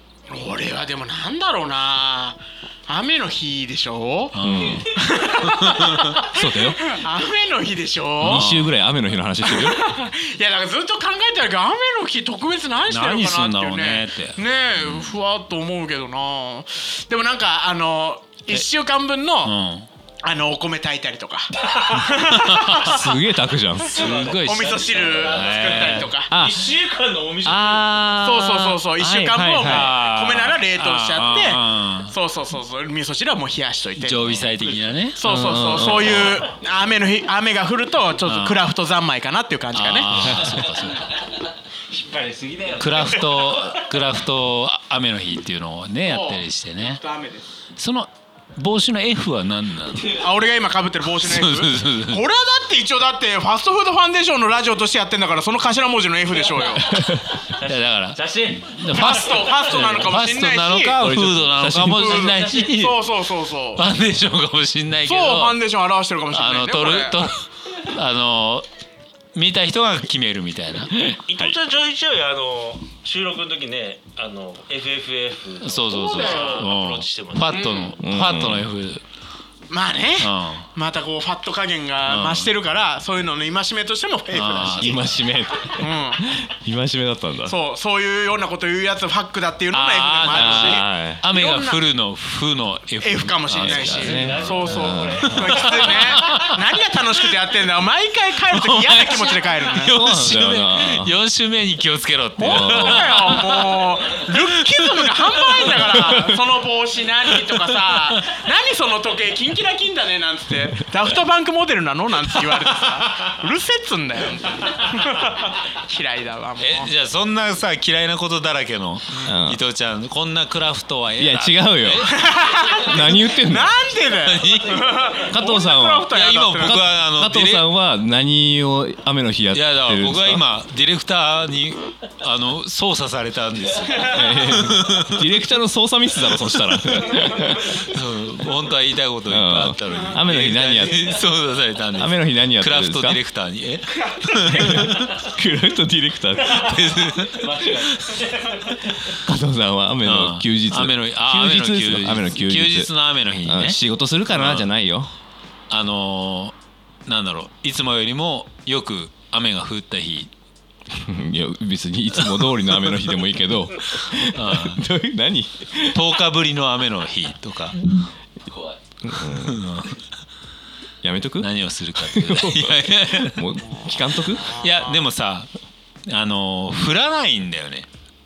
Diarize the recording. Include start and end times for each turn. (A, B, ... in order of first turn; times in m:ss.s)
0:00.3-0:04.4 A
0:04.3-0:04.9 B
0:04.4-0:04.9 C
0:04.9-0:08.5 A
0:05.4-0:06.2 B
0:06.3-0:06.9 C
0:08.2-0:09.9 C
0:08.2-0:08.7 B
0:09.4-0:19.5 A
0:12.9-0:15.2 B
0:19.4-0:19.9 B
0:20.2-0:23.2 A
0:21.7-0:22.1 D
0:22.3-0:23.2 B
0:22.8-0:24.0 C
0:23.8-0:26.3 A
0:23.9-0:28.1 D
0:23.9-0:26.2 B
0:26.3-0:26.6 C
0:27.4-0:29.9 C
0:28.2-0:34.5 A
0:29.6-0:32.1 B
0:34.0-0:35.2 B
0:35.1-0:40.5 A
0:35.2-0:36.4 C
0:38.2-0:38.6 B
0:39.7-0:41.1 B
0:41.9-0:43.9 D
0:42.8-0:47.0 B
0:46.0-0:47.5 A
0:47.8-0:50.2 B
0:50.1-0:57.0 A
0:51.0-0:52.2 B
0:56.5-0:59.4 D
0:57.6-1:03.1 B
0:58.9-1:03.8 A
1:01.0-1:02.0 C
1:02.0-1:02.6 D
1:03.7-1:05.6 B
1:05.0-1:07.2 A
1:06.3-1:08.7 B
1:09.3-1:11.0 B
1:11.0-1:11.6 C
1:11.0-1:17.9 D
1:15.6-1:19.0 B
1:16.0-1:16.5 A
1:17.5-1:18.0 A
1:18.0-1:18.7 C
1:19.7-1:26.2 A
1:20.2-1:20.7 B
1:22.0-1:22.5 B
1:24.3-1:25.1 B
1:24.7-1:27.6 C
1:27.4-1:31.8 A
1:29.7-1:34.9 B
1:30.2-1:31.2 C
1:33.0-1:40.0 A
1:33.6-1:35.6 C
1:33.8-1:36.4 D
1:35.4-1:36.6 B
1:38.5-1:46.1 B
1:39.9-1:41.1 C
1:42.4-1:56.9 A
1:42.5-1:43.3 C
1:46.0-1:46.3 C
1:47.4-1:48.3 B
1:56.6-2:03.0 B
1:59.2-1:59.6 C
2:01.2-2:02.1 C
2:02.0-2:06.8 A
2:02.8-2:03.7 C
2:04.2-2:05.1 B
2:05.3-2:10.4 C
2:06.1-2:07.7 B
2:09.5-2:15.4 B
2:14.0-2:17.9 C
2:16.2-2:16.5 B
2:17.8-2:25.2 B
2:19.3-2:21.1 C
2:21.9-2:23.2 C
2:24.5-2:26.6 C
2:26.4-2:28.8 B
2:26.5-2:29.1 D
2:29.1-2:32.9 C
2:30.0-2:33.8 B
2:33.4-2:35.1 C
2:34.3-2:34.7 B
2:35.7-2:36.5 B
2:37.0-2:40.3 B
2:40.9-2:46.1 C
2:42.2-2:43.0 B
2:44.3-2:44.9 B
2:45.9-2:48.0 B
2:49.0-2:49.6 C
2:49.2-2:50.0 B
2:51.0-2:54.6 C
2:51.4-2:53.5 B
2:53.6-2:55.1 A
2:54.2-2:55.5 B
2:56.0-2:57.9 B